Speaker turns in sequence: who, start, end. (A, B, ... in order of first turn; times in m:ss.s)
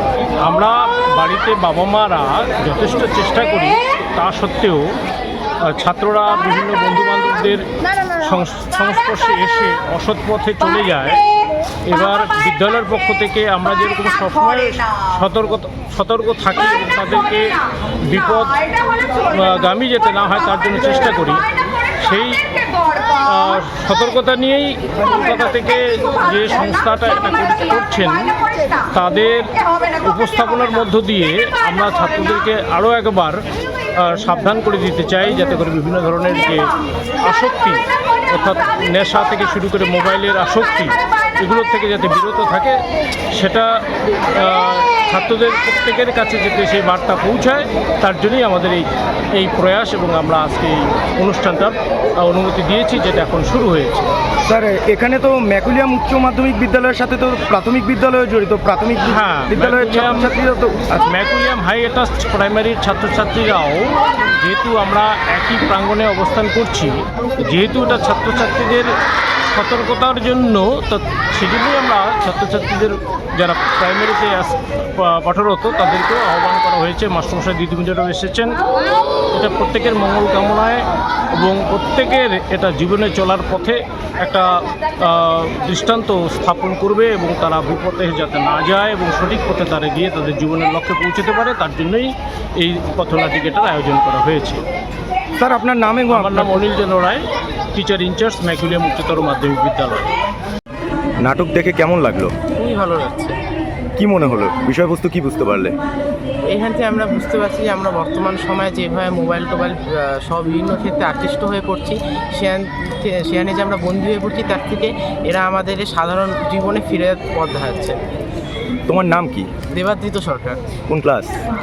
0:00.4-0:04.9 A
0:05.6-0:11.2 A
0:11.9-0:21.5 A
0:22.0-0:22.4 A
0:23.2-0:28.3 A
0:28.9-0:33.4 A
0:34.0-0:36.7 A
0:37.2-0:42.8 A
0:43.3-0:43.7 A
0:44.4-0:54.1 A
0:54.4-1:01.1 B
0:59.1-1:00.3 A
1:01.0-1:08.9 A
1:09.5-1:18.5 A
1:19.3-1:20.8 A
1:21.4-1:24.5 A
1:25.0-1:34.6 A
1:35.4-1:36.6 B
1:36.1-1:40.0 A
1:41.2-1:42.3 B
1:42.6-1:43.4 C
1:44.0-1:45.8 B
1:46.5-1:58.0 C
1:58.9-1:59.5 B
1:59.7-2:00.6 C
2:00.9-2:01.4 B